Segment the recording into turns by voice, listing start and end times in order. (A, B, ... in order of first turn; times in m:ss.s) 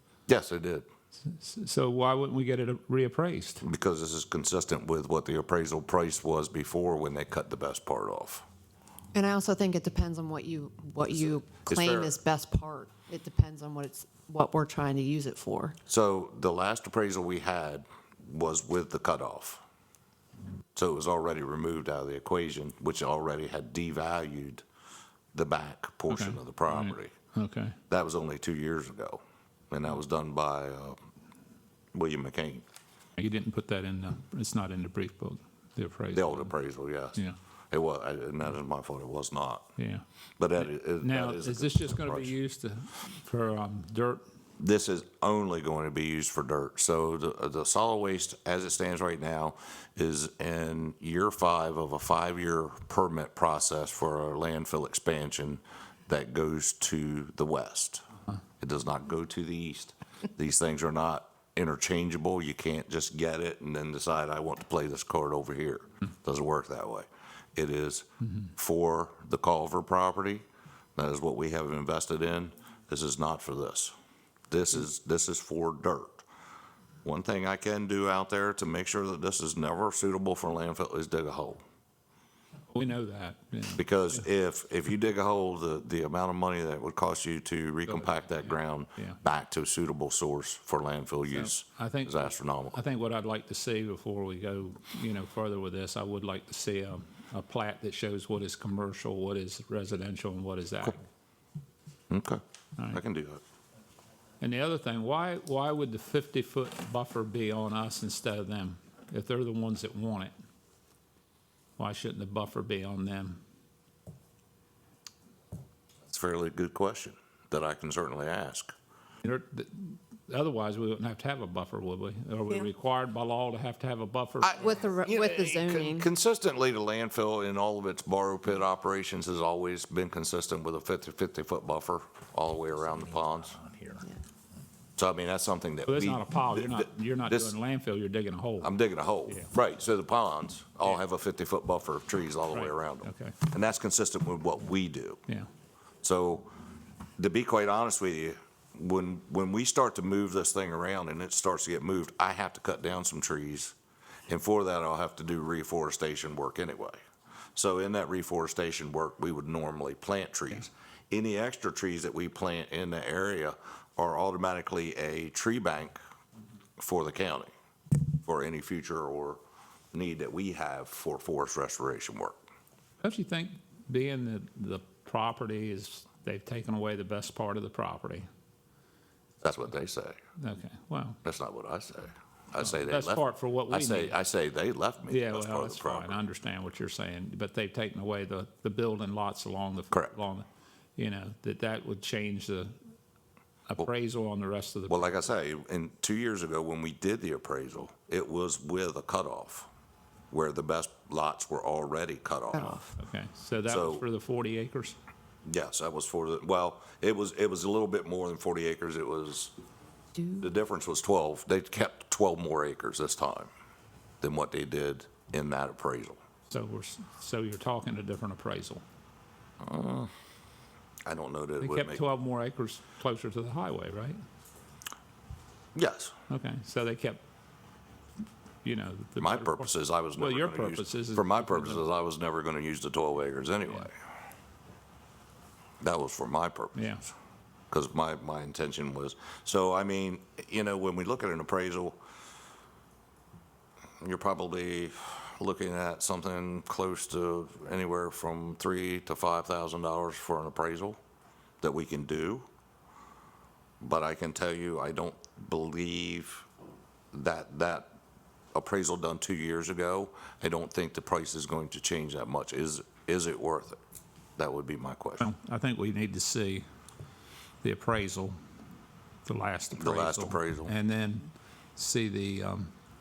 0:00.3-0:00.9 A
0:01.2-0:03.6 B
0:03.6-0:08.5 A
0:09.1-0:15.8 C
0:11.1-0:12.2 A
0:15.9-0:19.6 A
0:20.8-0:24.6 A
0:25.3-0:27.1 A
0:26.1-0:27.8 B
0:27.9-0:31.0 A
0:31.9-0:32.6 A
0:33.2-0:36.5 B
0:36.1-0:37.2 A
0:37.7-0:39.7 A
0:39.8-0:40.0 B
0:40.4-0:42.3 A
0:40.6-0:44.2 B
0:44.6-0:58.0 A
0:58.6-1:10.4 A
1:11.0-1:14.0 A
1:14.5-1:16.3 A
1:17.0-1:21.6 A
1:22.7-1:23.8 B
1:23.8-1:32.8 A
1:27.9-1:28.2 B
1:31.3-1:41.0 B
1:42.1-1:43.4 A
1:44.4-1:50.3 B
1:51.8-1:53.4 B
1:56.0-1:58.7 A
1:59.2-2:04.8 B
2:04.4-2:13.6 A
2:04.6-2:06.1 C
2:15.0-2:17.6 A
2:15.9-2:18.7 B
2:18.6-2:25.2 A
2:22.5-2:23.4 B
2:26.0-2:26.5 A
2:27.2-2:33.8 A
2:34.3-2:37.0 A
2:37.6-2:46.0 A
2:46.8-2:47.5 A
2:48.2-2:49.4 A
2:49.9-2:52.4 A
2:53.0-2:58.3 B
2:59.4-3:00.2 A
3:00.4-3:01.2 B
3:01.2-3:06.2 A
3:02.6-3:04.2 B
3:05.1-3:12.8 B
3:13.7-3:15.1 B
3:14.9-3:19.7 A
3:20.3-3:22.8 A
3:22.5-3:22.9 C
3:23.0-3:25.0 B
3:23.7-3:24.0 A
3:25.4-3:29.5 A
3:30.2-3:30.4 C
3:30.4-3:33.5 A
3:34.2-3:36.2 A
3:36.5-3:38.8 B
3:39.6-3:40.1 A
3:41.1-3:42.0 A
3:41.6-3:44.2 B
3:45.8-3:46.1 A
3:46.3-3:47.2 B
3:48.6-3:51.8 B
3:49.2-3:54.0 A
3:55.8-3:56.9 A
3:56.8-3:57.1 B
3:57.7-4:02.0 A
4:04.0-4:11.0 A
4:11.6-4:12.5 A
4:13.8-4:16.5 A
4:17.1-4:18.0 A
4:18.5-4:23.8 A
4:24.4-4:25.3 A
4:25.2-4:26.7 B
4:27.6-4:28.4 B
4:29.2-4:32.7 B
4:29.8-4:30.7 A